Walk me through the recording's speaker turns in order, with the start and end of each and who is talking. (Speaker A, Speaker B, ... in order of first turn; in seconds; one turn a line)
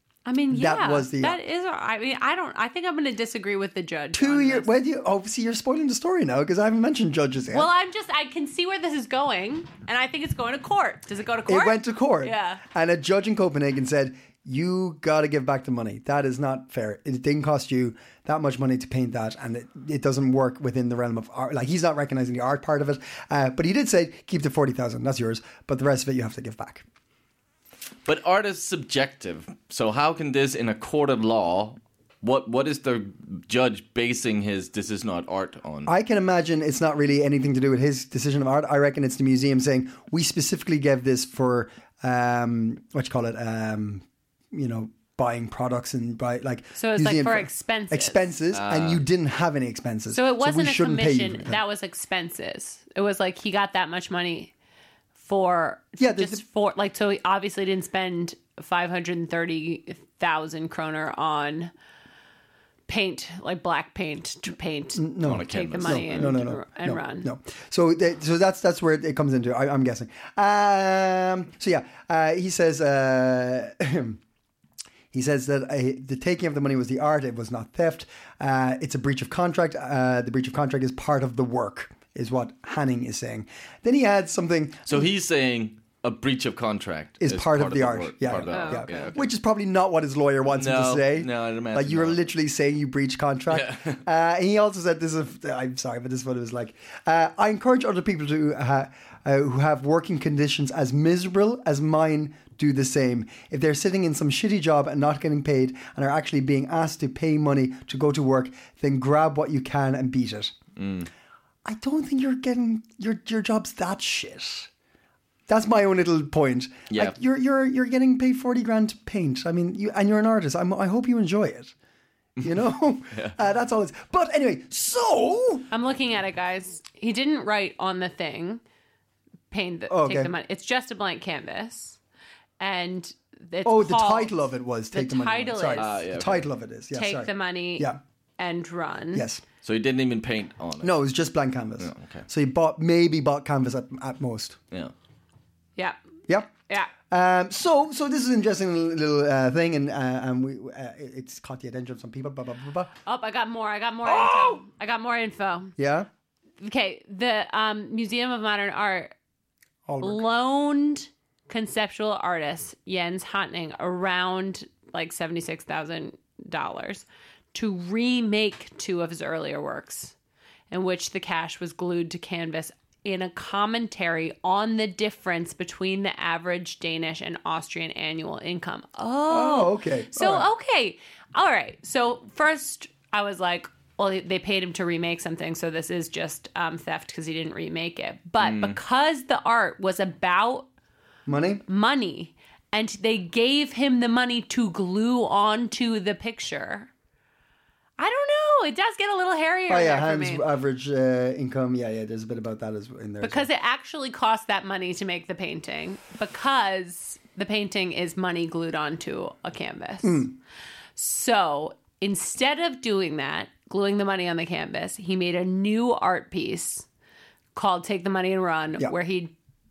Speaker A: 0.2-4.7
Speaker B: 0.5-1.4
Speaker B: 4.1-7.7
Speaker A: 7.5-12.6
Speaker B: 11.5-26.8
Speaker C: 28.0-35.9
Speaker B: 35.9-51.6
Speaker A: 46.8-48.3
Speaker C: 48.5-49.0
Speaker A: 50.1-54.5
Speaker A: 55.2-61.7
Speaker B: 56.0-56.4
Speaker A: 62.9-67.3
Speaker B: 64.9-74.2
Speaker C: 65.2-66.3
Speaker B: 75.1-85.0
Speaker C: 84.8-89.3
Speaker B: 87.2-110.5
Speaker A: 88.5-88.9
Speaker C: 90.5-92.3
Speaker C: 93.5-94.0
Speaker C: 110.8-111.1
Speaker B: 111.6-114.7
Speaker B: 115.5-121.7
Speaker C: 116.9-117.2
Speaker C: 122.4-123.3
Speaker B: 122.4-125.7
Speaker A: 125.7-128.6
Speaker A: 129.5-132.0
Speaker B: 129.9-130.3
Speaker A: 132.6-134.4
Speaker B: 133.6-138.0
Speaker A: 134.9-135.9
Speaker C: 135.7-136.5
Speaker A: 136.9-139.3
Speaker B: 139.1-139.4
Speaker C: 139.6-140.9
Speaker B: 140.8-144.6
Speaker C: 141.8-142.3
Speaker B: 146.3-152.9
Speaker A: 153.1-155.7
Speaker B: 154.1-154.6
Speaker B: 155.8-156.1
Speaker A: 156.6-159.1
Speaker B: 159.8-160.2
Speaker A: 160.0-170.1
Speaker A: 170.7-190.7
Speaker B: 179.3-180.5
Speaker C: 188.4-188.8
Speaker B: 191.2-191.6
Speaker A: 191.7-196.9
Speaker A: 198.0-200.5
Speaker B: 199.7-203.5
Speaker A: 203.2-210.3
Speaker B: 210.0-210.3
Speaker A: 211.0-216.8
Speaker A: 217.5-219.3